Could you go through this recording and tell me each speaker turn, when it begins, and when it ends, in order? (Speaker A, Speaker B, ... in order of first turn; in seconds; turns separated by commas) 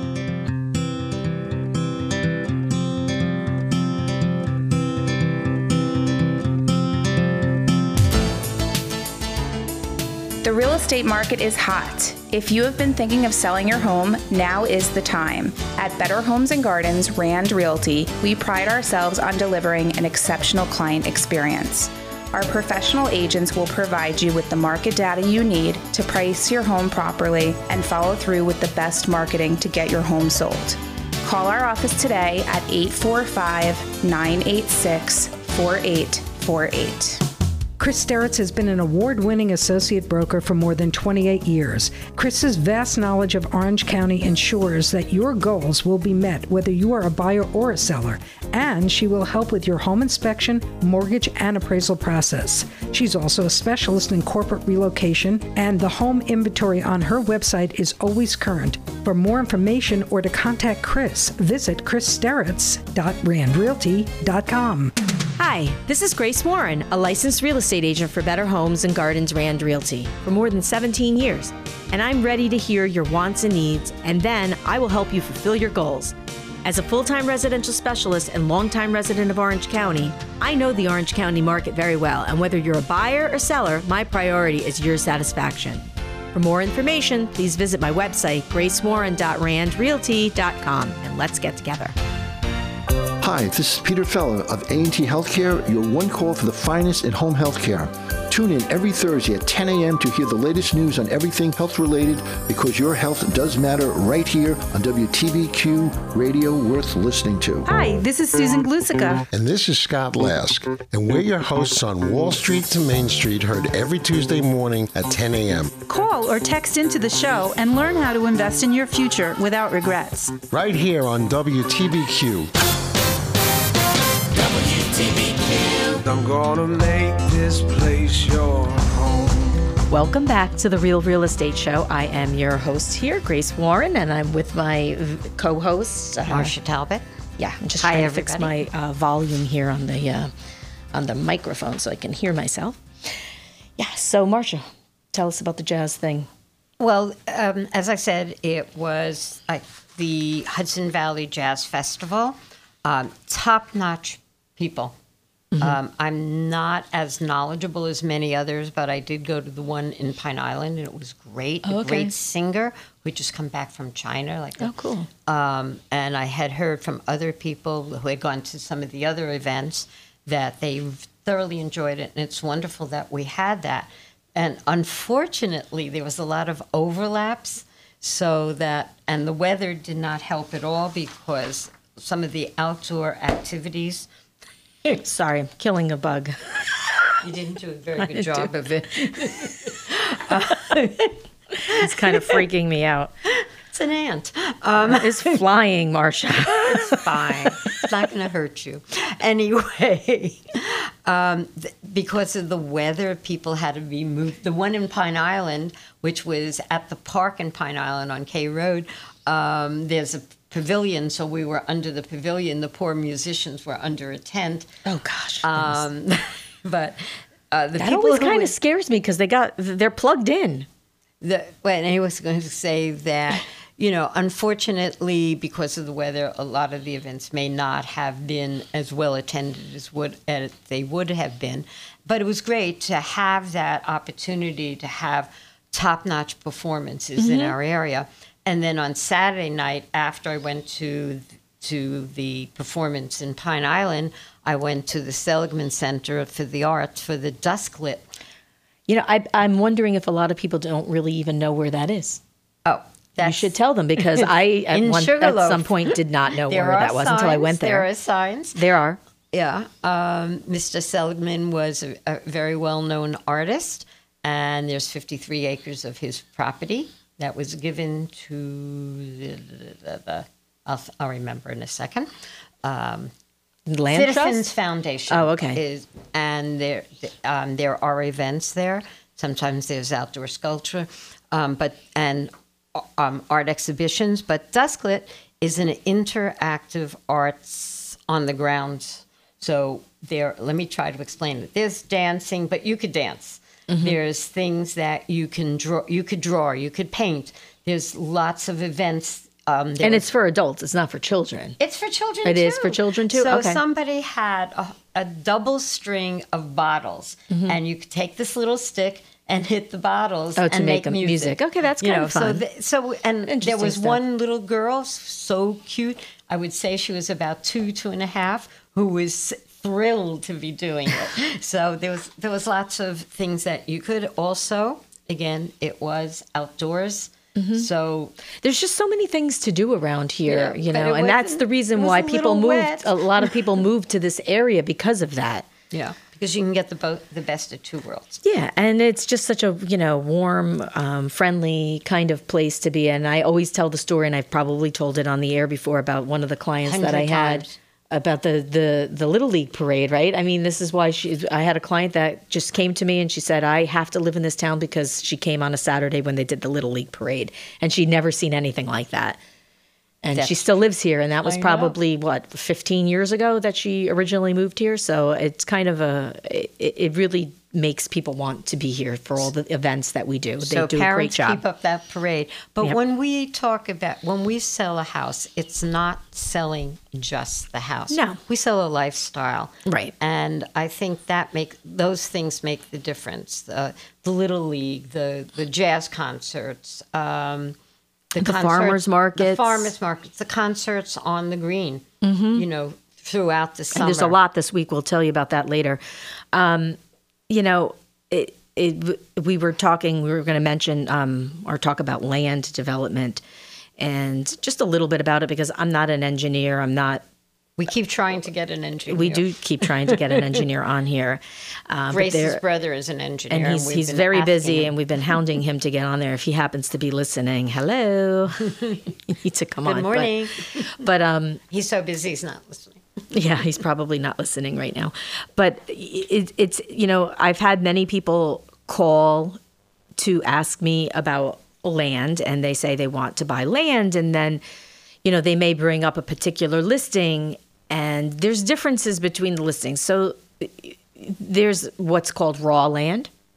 Speaker A: 10.4-37.2, Speaker B: 37.8-64.9, Speaker C: 65.4-92.0, Speaker D: 93.2-107.7, Speaker E: 107.6-109.3, Speaker F: 109.3-115.8, Speaker E: 115.8-120.4, Speaker F: 120.5-122.5, Speaker G: 126.0-129.5, Speaker C: 129.9-136.5, Speaker H: 136.3-137.0, Speaker C: 137.4-140.3, Speaker H: 137.8-138.6, Speaker C: 140.9-143.2, Speaker C: 143.8-146.3, Speaker H: 146.8-154.9, Speaker H: 155.6-164.7, Speaker C: 161.6-162.1, Speaker C: 164.6-165.1, Speaker H: 165.2-184.1, Speaker C: 185.0-187.1, Speaker H: 187.2-192.4, Speaker C: 188.0-189.3, Speaker C: 191.7-193.1, Speaker H: 193.3-195.4, Speaker C: 194.9-197.3, Speaker H: 196.5-214.7, Speaker C: 214.8-215.8, Speaker H: 215.4-218.5, Speaker C: 217.8-220.7, Speaker H: 221.2-248.1, Speaker C: 237.2-237.6, Speaker C: 248.9-252.2, Speaker H: 252.6-258.6, Speaker C: 253.2-257.9, Speaker C: 258.5-259.0, Speaker H: 259.3-272.1, Speaker H: 272.6-273.1, Speaker C: 273.7-274.5, Speaker H: 273.9-300.1, Speaker C: 275.1-275.6, Speaker C: 293.7-294.0, Speaker C: 299.8-301.6, Speaker H: 301.6-328.1, Speaker C: 302.2-303.6, Speaker C: 307.3-307.6, Speaker C: 310.4-312.4, Speaker C: 313.2-314.0, Speaker C: 327.4-327.7, Speaker C: 328.3-335.5, Speaker H: 330.2-333.5, Speaker H: 335.7-338.2, Speaker C: 338.2-359.2, Speaker H: 346.6-347.5, Speaker C: 360.0-371.4, Speaker H: 360.1-360.6, Speaker H: 361.2-361.8, Speaker H: 370.4-387.6, Speaker C: 377.9-378.2, Speaker C: 379.6-379.9, Speaker H: 388.1-394.2, Speaker C: 388.2-389.7, Speaker C: 392.0-392.4, Speaker C: 393.7-395.8, Speaker C: 396.3-396.8, Speaker C: 397.3-403.2, Speaker C: 403.8-407.0, Speaker H: 407.6-410.3, Speaker C: 408.9-412.4, Speaker H: 411.9-414.7, Speaker C: 413.3-421.4, Speaker H: 419.6-420.8, Speaker H: 421.5-422.8, Speaker C: 423.1-429.4, Speaker C: 429.9-434.4, Speaker C: 435.0-443.1